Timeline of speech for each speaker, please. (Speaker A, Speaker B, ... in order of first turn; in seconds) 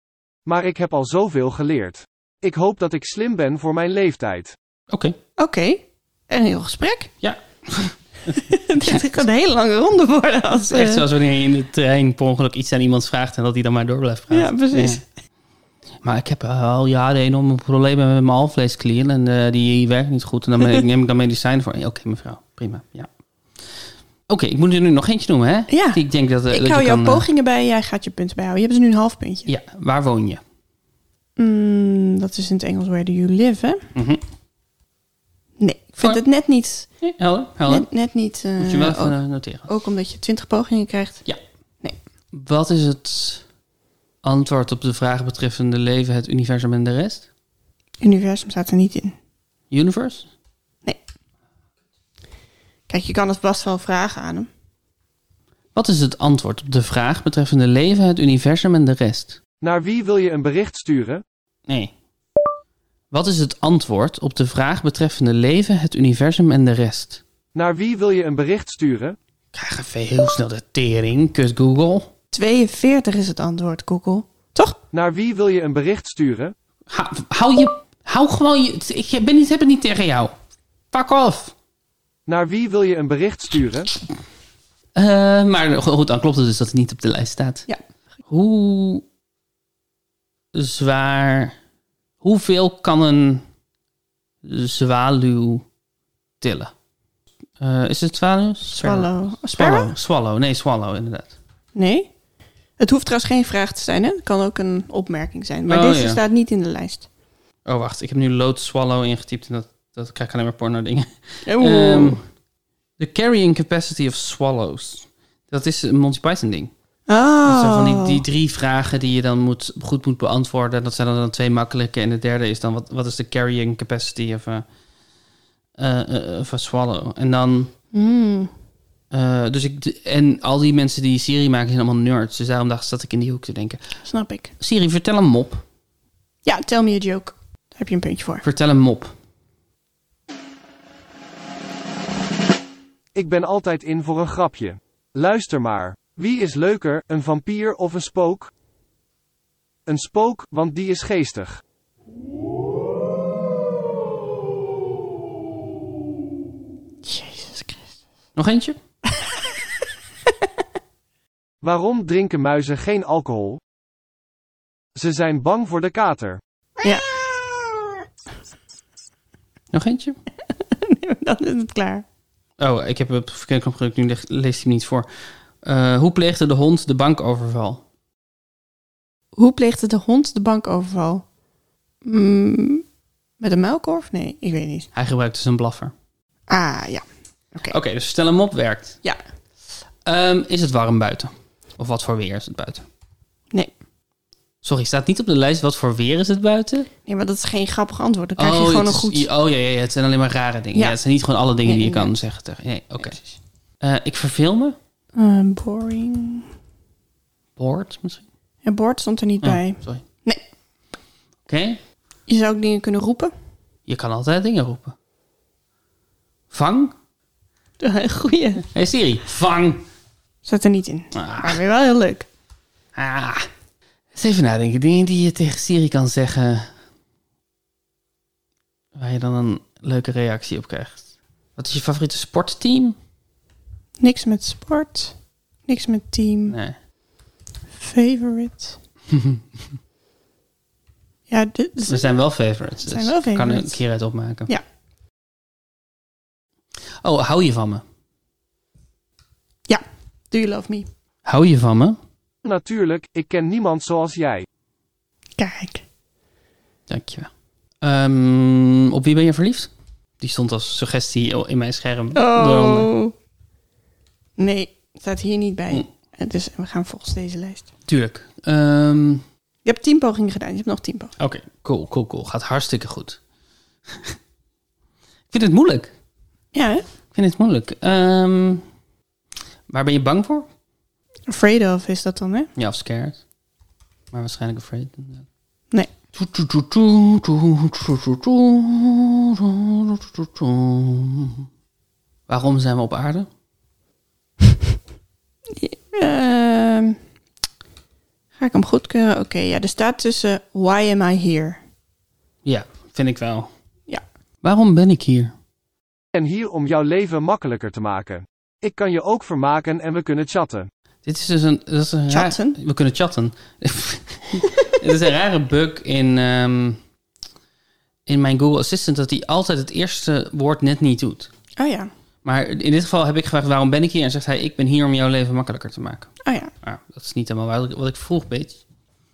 Speaker A: 0.5-4.5, 59.6-61.2, 67.5-69.2, 74.9-76.5, 82.3-83.9, 143.1-148.5, 149.9-151.6, 161.6-163.6, 164.9-166.4, 252.4-254.4, 306.1-310.7
Speaker B: 4.9-5.2, 7.2-9.1, 10.7-15.0, 16.0-23.1, 24.3-27.2, 29.5-30.4, 33.9-34.2, 37.0-37.9, 38.6-39.7, 42.3-43.4, 44.2-47.3, 49.7-50.3, 55.7-59.4, 61.7-61.9, 63.1-67.2, 69.5-72.1, 76.9-80.3, 80.9-81.5, 85.0-87.7, 88.3-89.0, 90.5-91.5, 92.2-93.4, 94.4-95.6, 96.4-96.7, 97.6-101.3, 105.7-106.2, 107.7-112.2, 113.0-116.7, 117.4-124.6, 125.8-127.7, 129.1-133.9, 134.6-135.6, 138.4-139.1, 158.3-158.8, 169.7-170.2, 172.6-175.1, 175.6-177.8, 184.9-185.9, 187.7-189.0, 190.1-192.8, 194.6-196.9, 198.4-203.2, 203.8-204.8, 207.6-208.2, 209.4-210.0, 211.5-211.8, 213.9-214.9, 216.5-216.9, 218.7-219.8, 221.1-221.6, 222.9-223.5, 224.1-226.7, 228.9-232.9, 236.5-236.8, 239.1-239.4, 241.8-244.5, 247.0-247.8, 251.2-252.0, 256.9-257.3, 257.8-262.9, 267.9-269.2, 271.2-273.2, 275.3-275.9, 277.1-278.6, 279.7-280.5, 282.6-283.2, 284.1-285.2, 286.1-291.5, 292.3-293.3, 302.4-303.5, 304.4-305.3, 311.0-316.8, 318.1-321.3, 322.2-326.1, 326.6-328.6
Speaker C: 5.4-7.1, 8.3-11.1, 14.3-15.0, 25.7-29.5, 31.4-33.9, 35.6-36.9, 37.7-39.1, 39.7-41.2, 48.0-49.1, 52.9-54.5, 72.3-74.8, 98.7-99.9, 101.7-102.1, 102.8-107.1, 111.4-112.2, 117.1-118.2, 127.9-128.5, 134.0-134.5, 136.4-138.4, 157.0-157.9, 159.1-159.4, 166.8-167.4, 170.7-172.0, 179.3-181.2, 182.0-182.8, 183.4-184.9, 186.5-187.8, 197.0-199.3, 201.6-202.1, 205.1-206.5, 208.6-210.4, 212.3-213.3, 217.8-218.6, 220.4-222.3, 234.0-236.6, 237.8-238.8, 241.3-242.1, 242.8-243.8, 249.7-250.9, 255.4-255.8, 262.1-263.1, 264.4-267.7, 269.6-271.1, 276.5-276.8, 281.3-282.5, 295.5-297.0, 298.4-301.6, 312.1-312.6, 321.6-321.9, 326.2-326.5